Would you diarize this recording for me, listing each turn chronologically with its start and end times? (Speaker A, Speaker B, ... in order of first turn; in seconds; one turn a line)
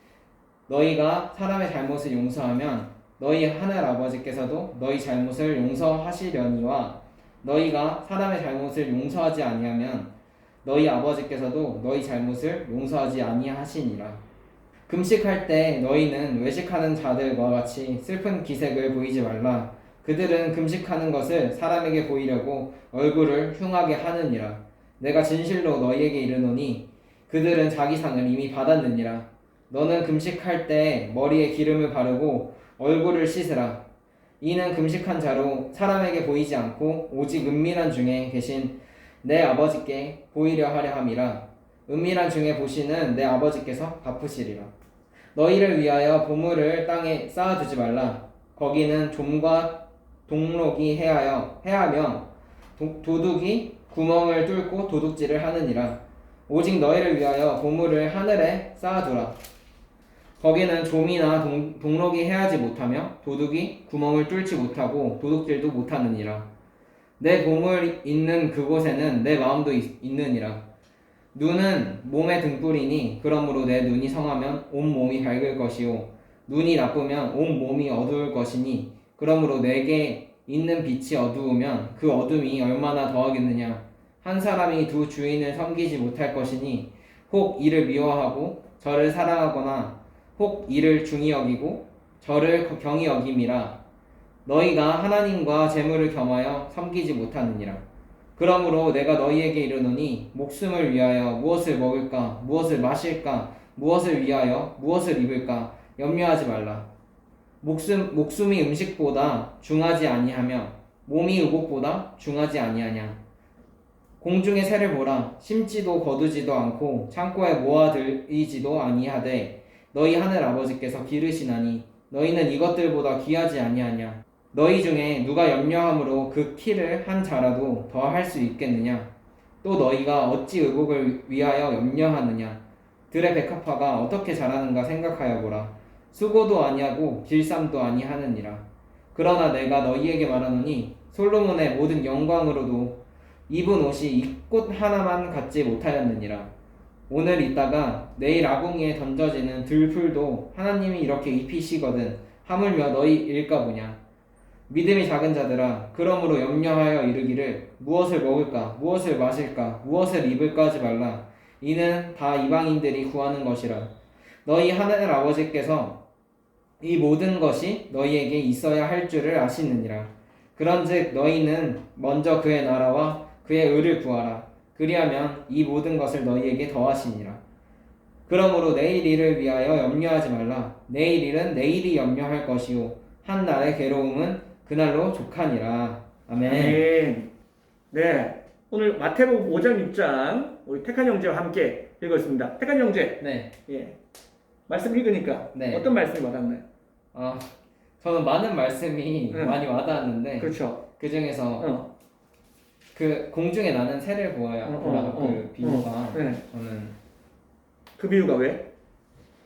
Speaker A: 0.7-10.1
Speaker A: 10.6-14.2
Speaker A: 14.9-33.8
Speaker A: 34.4-44.7
Speaker A: 45.4-59.4
Speaker A: 60.4-66.5
Speaker A: 67.2-70.6
Speaker A: 71.3-93.8
Speaker A: 94.5-97.8
Speaker A: 98.4-106.9
Speaker A: 107.6-113.2
Speaker A: 114.2-129.1
Speaker A: 129.6-146.5
Speaker A: 147.1-154.0
Speaker A: 154.7-163.9
Speaker A: 164.4-166.0
Speaker A: 166.8-177.4
Speaker A: 178.3-186.8
Speaker B: 186.4-187.3
Speaker B: 187.9-194.0
Speaker A: 193.2-193.5
Speaker B: 194.7-196.6
Speaker A: 195.5-195.9
Speaker A: 197.1-201.7
Speaker B: 199.3-199.6
Speaker B: 200.4-200.8
Speaker B: 201.6-201.9
Speaker A: 202.9-206.9
Speaker B: 204.7-206.4
Speaker B: 208.0-208.7